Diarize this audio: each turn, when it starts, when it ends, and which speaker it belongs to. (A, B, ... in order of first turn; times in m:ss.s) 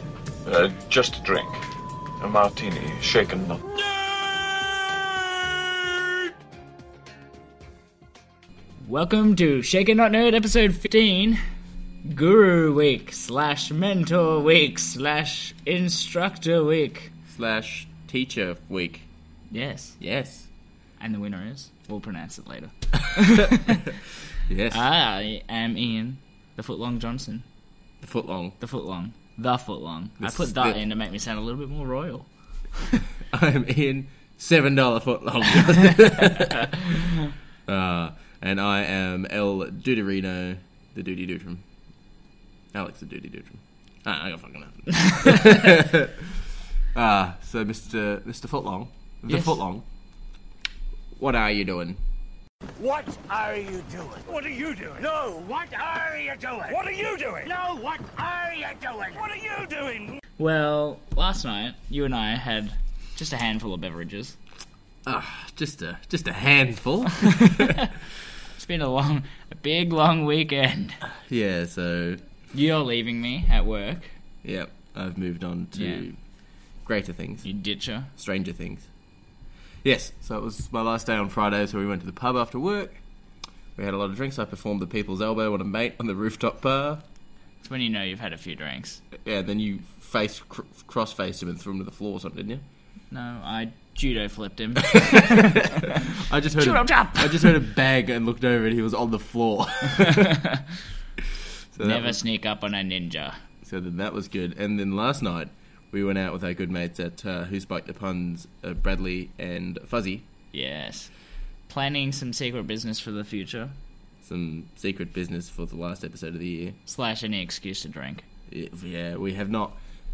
0:00.4-0:01.6 A
0:02.2-0:03.6 A
0:08.8-0:11.4 B
0:12.0-0:17.1 B
0:17.3-0:19.1 C
0:19.5-0:20.0 B
0:20.0-0:20.5 C
0:21.0-0:23.8 B
0:23.1-0:23.4 C
0:24.5-0:24.8 C
0:24.7-0:27.4 B
0:28.0-0:28.6 C
0:28.6-0:33.0 B
0:30.2-0:30.8 C
0:33.3-0:37.0 C
0:37.7-0:41.6 C
0:42.7-0:49.8 C
0:45.0-0:45.7 B
0:49.3-0:49.6 B
0:51.2-0:52.0 C
0:52.8-1:00.2 D
1:00.4-1:04.4 B
1:05.0-1:07.8 C
1:07.4-1:07.9 B
1:08.6-1:11.0 B
1:11.3-1:12.2 C
1:12.5-1:14.2 B
1:14.4-1:16.2 C
1:15.7-1:16.0 B
1:16.8-1:17.5 C
1:17.4-1:18.1 B
1:18.2-1:18.9 C
1:19.8-1:23.0 C
1:23.8-1:27.0 C
1:27.6-1:29.0 B
1:29.2-1:32.6 C
1:33.1-1:36.0 B
1:35.0-1:40.3 C
1:36.6-1:37.6 B
1:40.0-1:40.6 B
1:41.7-1:42.2 C
1:41.8-1:43.4 B
1:43.6-1:50.2 C
1:50.5-1:51.1 B
1:51.7-1:53.7 B
1:54.2-1:56.8 C
1:56.9-1:58.2 B
1:58.5-1:59.8 C